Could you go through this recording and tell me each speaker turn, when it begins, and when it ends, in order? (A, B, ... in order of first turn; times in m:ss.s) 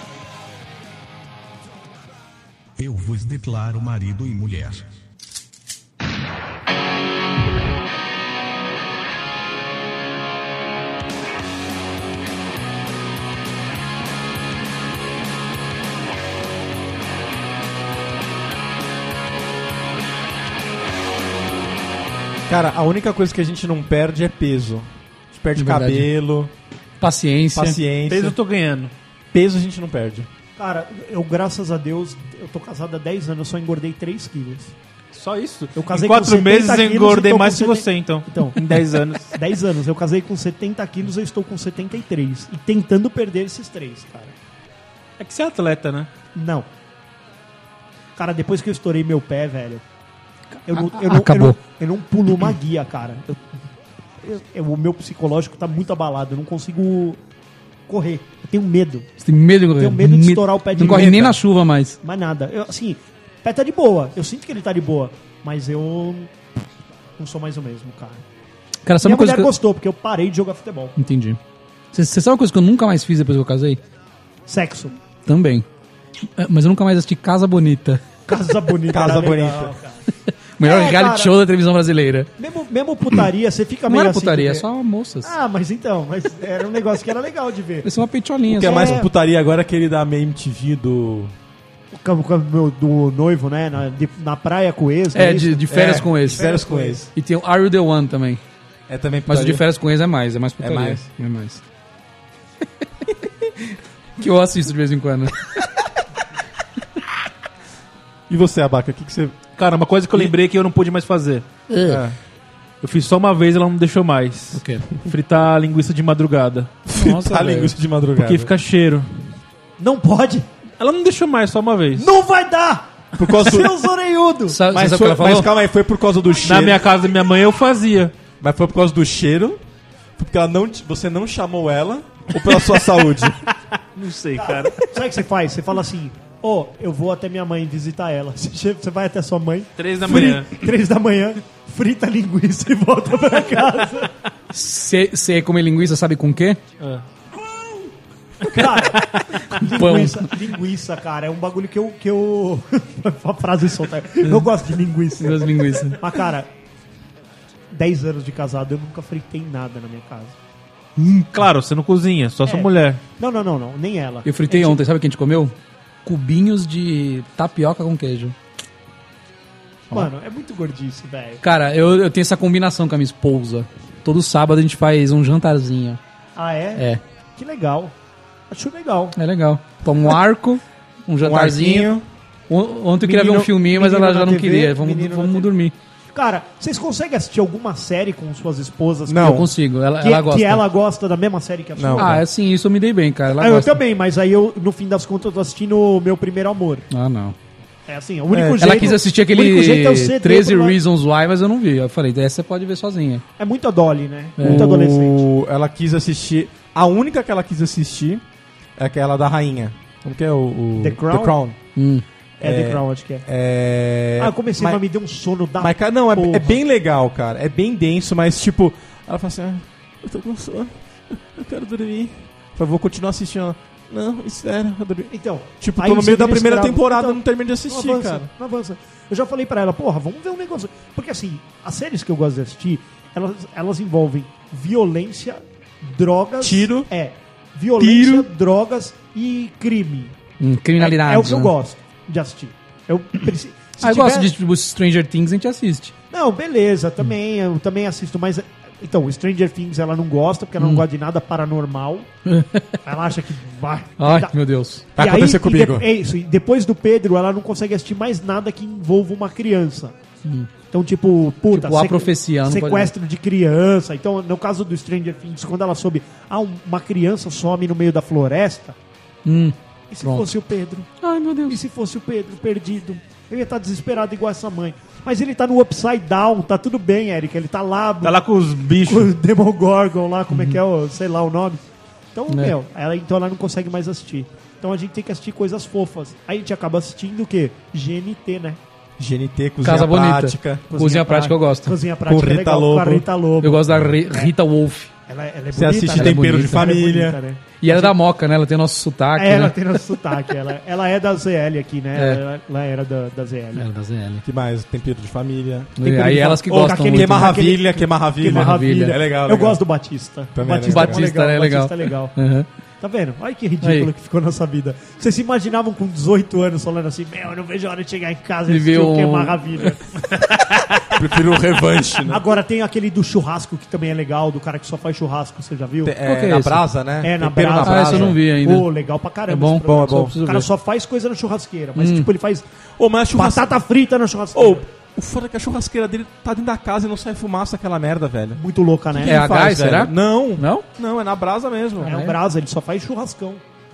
0:02.8-0:04.9 A
0:22.5-0:26.5 B
0:25.6-0:26.1 C
0:27.0-0:27.8 C
0:27.5-0:28.3 B
0:28.1-0:28.9 D
0:29.3-0:30.3 B
0:30.6-0:34.7 E
0:35.1-0:39.4 D
0:35.7-0:38.6 E
0:39.2-0:44.3 E
0:45.2-0:46.1 D
0:46.3-0:46.7 E
0:48.2-0:49.8 E
0:50.7-0:53.4 E
0:50.7-0:51.6 C
0:54.2-0:57.2 E
0:57.9-0:59.1 E
0:59.2-1:02.0 C
0:59.8-1:01.4 E
1:00.8-1:01.3 B
1:02.0-1:06.3 E
1:07.2-1:08.2 E
1:08.8-1:09.5 C
1:09.0-1:10.9 E
1:11.0-1:11.4 C
1:11.9-1:13.8 C
1:14.5-1:14.9 E
1:15.2-1:15.6 C
1:16.4-1:18.0 C
1:18.3-1:20.0 E
1:18.9-1:19.7 B
1:20.6-1:22.3 C
1:20.6-1:21.3 E
1:22.4-1:24.7 E
1:23.9-1:25.3 C
1:25.2-1:27.9 E
1:27.8-1:28.9 C
1:28.4-1:31.3 B
1:28.6-1:29.1 E
1:31.9-1:37.0 E
1:35.1-1:36.5 C
1:35.7-1:37.1 B
1:37.1-1:38.4 C
1:38.9-1:39.6 B
1:39.3-1:41.6 C
1:40.6-1:41.1 B
1:43.4-1:45.5 C
1:48.3-1:49.4 B
1:49.6-1:52.2 D
1:51.7-1:52.0 C
1:52.8-1:56.7 D
1:54.5-1:54.9 C
1:56.9-1:58.5 B
1:56.9-1:57.7 C
1:58.2-1:59.1 D
1:59.8-2:00.5 E
2:00.8-2:02.1 D
2:02.0-2:04.6 E
2:03.2-2:03.8 B
2:04.5-2:05.5 C
2:04.7-2:06.9 B
2:06.4-2:08.1 D
2:08.4-2:09.6 B
2:10.2-2:13.4 B
2:12.4-2:14.9 D
2:14.3-2:24.1 E
2:19.8-2:20.5 D
2:24.5-2:26.6 C
2:28.4-2:36.5 E
2:28.8-2:29.2 D
2:29.5-2:30.3 C
2:35.2-2:36.0 C
2:37.7-2:40.4 E
2:41.0-2:43.0 D
2:43.2-2:44.8 E
2:44.2-2:48.3 C
2:49.9-2:51.4 E
2:51.4-2:56.0 C
2:56.4-2:57.9 E
2:58.5-2:59.2 E
2:59.2-3:01.9 C
3:01.2-3:02.0 B
3:02.5-3:05.7 C
3:03.0-3:05.5 E
3:06.1-3:09.5 E
3:09.1-3:09.5 B
3:09.2-3:10.6 C
3:10.0-3:12.2 E
3:11.8-3:12.2 B
3:12.0-3:13.8 C
3:13.4-3:16.9 E
3:16.9-3:17.4 C
3:17.9-3:20.8 E
3:18.3-3:19.0 B
3:18.6-3:23.2 C
3:23.4-3:25.3 E
3:24.4-3:24.8 C
3:24.4-3:28.2 B
3:28.8-3:31.6 B
3:30.8-3:31.3 E
3:31.7-3:32.0 C
3:32.4-3:33.2 E
3:32.4-3:34.8 B
3:34.2-3:36.6 E
3:35.6-3:48.3 B
3:45.1-4:00.1 E
3:56.4-3:56.9 B
3:57.8-3:58.2 B
4:00.4-4:01.5 C
4:00.8-4:04.3 E
4:03.8-4:05.9 C
4:06.1-4:12.1 E
4:10.6-4:10.8 C
4:12.2-4:12.8 C
4:12.8-4:14.3 E
4:14.0-4:14.8 C
4:15.0-4:15.9 B
4:15.0-4:19.9 E
4:20.2-4:20.5 C
4:20.7-4:28.8 E
4:21.5-4:22.9 C
4:29.2-4:30.3 C
4:29.9-4:30.9 E
4:31.0-4:31.6 C
4:31.4-4:38.2 E
4:38.0-4:39.1 D
4:38.8-4:41.6 E
4:42.1-4:48.6 E
4:49.0-4:50.7 B
4:49.6-4:51.8 C
4:50.7-4:54.3 E
4:52.1-4:53.1 B
4:53.4-4:54.9 C
4:55.1-4:57.9 E
4:55.5-4:57.2 B
4:56.0-4:56.7 C
4:57.6-4:59.6 C
4:59.2-5:03.7 E
5:02.0-5:02.2 C
5:03.6-5:04.2 C
5:04.2-5:05.9 B
5:05.8-5:07.4 C
5:05.8-5:12.2 E
5:06.5-5:09.6 B
5:08.3-5:09.0 C
5:10.3-5:11.0 B
5:10.6-5:12.5 C
5:12.8-5:19.8 E
5:13.6-5:13.9 C
5:18.5-5:19.8 C
5:20.9-5:22.2 B
5:22.0-5:25.9 E
5:25.8-5:28.2 B
5:26.0-5:26.6 C
5:27.0-5:32.4 E
5:27.6-5:28.7 C
5:29.3-5:30.5 C
5:29.7-5:30.2 B
5:31.8-5:32.1 C
5:32.8-5:33.6 B
5:33.1-5:34.6 E
5:34.3-5:38.4 B
5:38.4-5:39.3 E
5:39.0-5:41.9 B
5:39.0-5:40.6 C
5:41.8-5:42.2 C
5:41.8-5:43.4 E